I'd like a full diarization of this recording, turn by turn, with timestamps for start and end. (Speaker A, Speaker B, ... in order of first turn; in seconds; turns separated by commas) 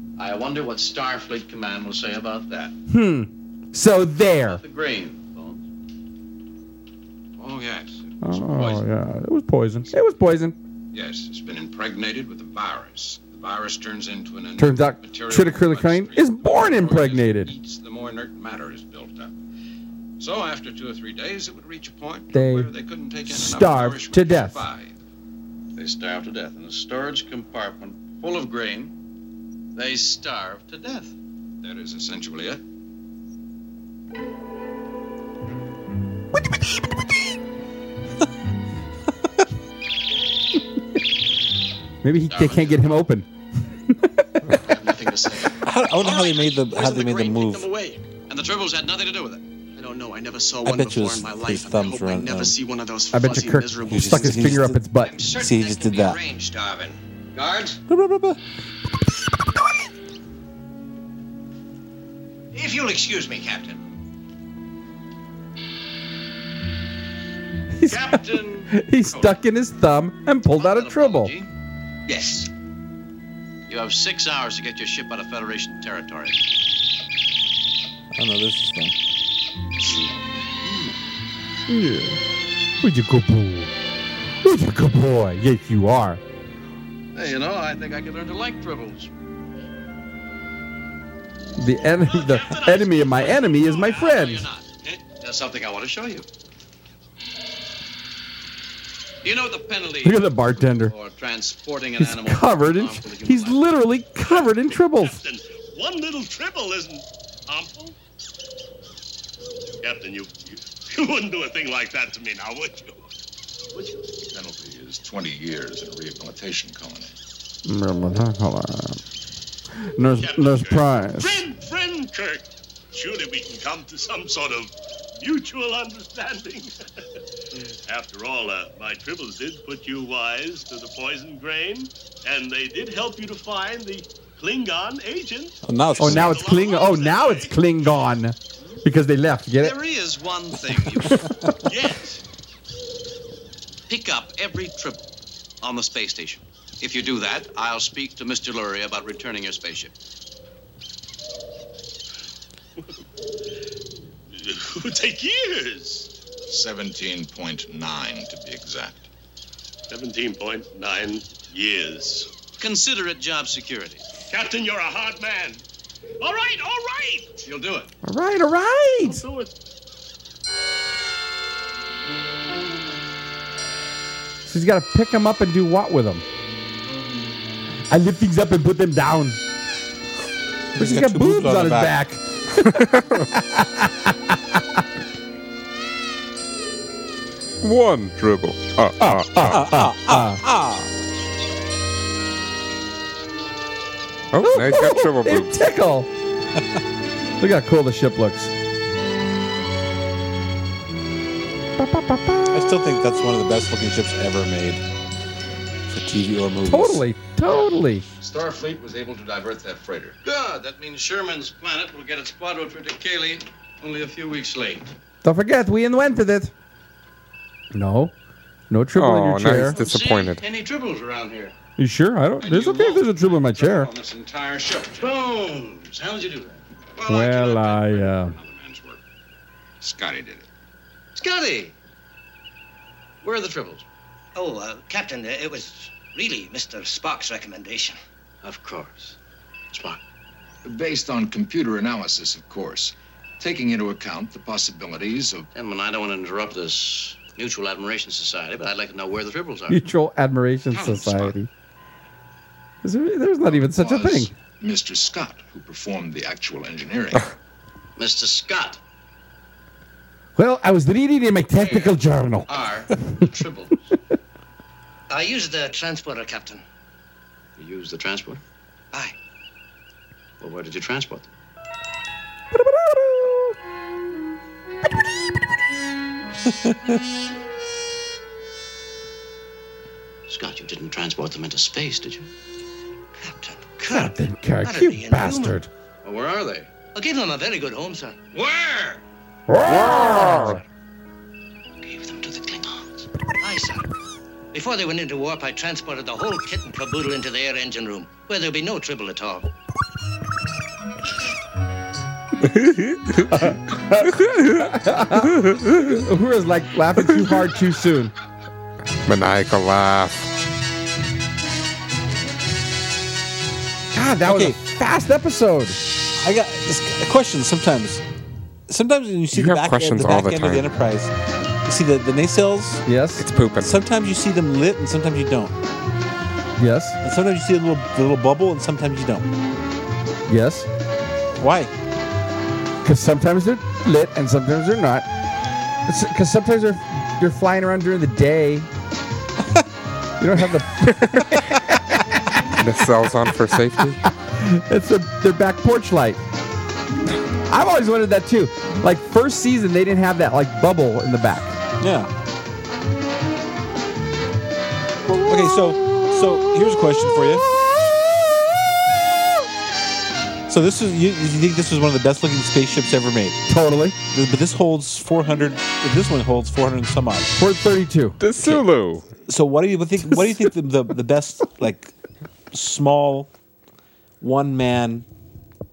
Speaker A: 0.2-2.8, Speaker B: 2.9-4.6, Speaker A: 4.5-5.7, Speaker C: 7.4-8.8, Speaker B: 8.2-10.6, Speaker C: 10.9-19.3, Speaker B: 14.6-17.5, Speaker C: 20.2-25.0, Speaker B: 22.3-22.7, Speaker B: 23.3-24.6, Speaker A: 25.8-28.9, Speaker A: 29.7-31.1, Speaker C: 31.6-32.6, Speaker B: 42.0-44.6, Speaker C: 42.3-42.7, Speaker D: 44.6-45.6, Speaker E: 45.6-47.7, Speaker D: 46.5-48.0, Speaker A: 48.3-49.4, Speaker D: 49.8-54.4, Speaker E: 50.6-52.6, Speaker B: 53.1-55.2, Speaker E: 53.9-56.2, Speaker F: 54.9-57.8, Speaker E: 57.9-58.4, Speaker F: 62.5-63.8, Speaker B: 67.7-71.3, Speaker A: 67.9-69.3, Speaker A: 70.6-71.5, Speaker F: 72.1-72.5, Speaker A: 73.7-76.4, Speaker E: 78.1-78.9, Speaker A: 79.8-81.0, Speaker B: 81.7-82.2, Speaker B: 82.8-83.7, Speaker B: 84.4-86.2, Speaker A: 87.1-89.1, Speaker B: 91.6-94.5, Speaker A: 92.0-96.3, Speaker A: 99.2-103.7, Speaker B: 100.0-100.9, Speaker B: 102.0-105.2, Speaker G: 104.2-108.0, Speaker G: 109.8-113.0, Speaker G: 113.7-114.0, Speaker H: 114.3-117.1, Speaker B: 117.7-119.0, Speaker B: 120.0-121.4, Speaker G: 120.2-126.8, Speaker G: 127.9-137.6, Speaker E: 135.6-136.4, Speaker B: 136.0-139.8, Speaker A: 139.6-141.3, Speaker G: 141.7-142.2, Speaker A: 143.9-145.1, Speaker A: 145.6-149.9, Speaker G: 154.3-156.1, Speaker H: 156.5-159.1, Speaker G: 159.9-162.3, Speaker A: 162.6-164.1, Speaker G: 164.3-165.6, Speaker G: 166.2-167.5, Speaker A: 167.4-167.9, Speaker B: 168.0-169.2, Speaker G: 169.0-169.5, Speaker B: 174.5-176.2, Speaker B: 177.9-179.4, Speaker E: 180.8-182.0, Speaker B: 180.8-184.8, Speaker I: 187.6-189.8, Speaker B: 189.0-190.4, Speaker E: 189.5-190.9, Speaker I: 194.3-195.6, Speaker B: 194.4-196.1, Speaker B: 197.4-198.5, Speaker B: 201.8-202.5, Speaker E: 202.5-204.8, Speaker E: 205.9-207.0, Speaker B: 206.7-208.1, Speaker C: 208.2-210.2, Speaker A: 210.2-214.8, Speaker B: 215.2-216.5, Speaker B: 217.7-218.1, Speaker B: 218.7-219.8, Speaker I: 218.9-220.4, Speaker A: 219.5-221.5, Speaker B: 221.8-223.9, Speaker C: 222.4-225.2, Speaker A: 224.9-226.6, Speaker C: 227.0-229.0, Speaker B: 227.1-228.3, Speaker C: 229.8-230.5, Speaker A: 231.2-231.7, Speaker A: 233.2-233.8, Speaker J: 234.3-238.0, Speaker A: 238.4-239.2, Speaker A: 239.7-240.0, Speaker H: 240.7-245.5, Speaker A: 245.5-249.8, Speaker B: 249.7-251.5, Speaker H: 251.0-251.2, Speaker B: 252.8-254.3, Speaker H: 253.4-257.3, Speaker A: 258.0-258.8, Speaker B: 260.4-263.2, Speaker A: 261.5-263.9, Speaker J: 265.1-266.6, Speaker A: 267.6-268.4, Speaker A: 270.4-271.3, Speaker B: 272.5-273.6, Speaker A: 280.3-282.3, Speaker J: 283.2-285.6, Speaker B: 283.9-285.7, Speaker A: 286.0-286.7, Speaker J: 286.9-289.0, Speaker B: 289.5-290.6, Speaker J: 291.8-293.9, Speaker J: 294.5-299.5, Speaker I: 302.5-303.3, Speaker B: 303.3-308.1, Speaker I: 305.5-305.9, Speaker I: 309.1-310.3, Speaker B: 313.9-315.8, Speaker E: 314.3-314.6, Speaker E: 316.2-318.0, Speaker E: 318.7-321.1, Speaker I: 319.3-320.7, Speaker E: 321.6-322.8, Speaker B: 322.9-323.3, Speaker I: 323.2-323.7, Speaker E: 323.6-325.6, Speaker B: 326.6-327.0, Speaker E: 327.0-329.3, Speaker B: 330.3-330.7, Speaker E: 331.4-331.7, Speaker B: 332.8-335.1, Speaker B: 335.9-338.7, Speaker B: 340.2-342.0, Speaker I: 342.6-344.0, Speaker B: 344.4-346.2, Speaker B: 347.5-351.6, Speaker E: 351.8-352.1, Speaker E: 355.3-357.4, Speaker E: 360.5-363.4, Speaker B: 363.5-364.0, Speaker E: 364.1-367.4, Speaker B: 367.4-368.2, Speaker I: 368.2-369.1, Speaker E: 369.3-371.9, Speaker E: 372.5-373.3, Speaker E: 374.2-375.1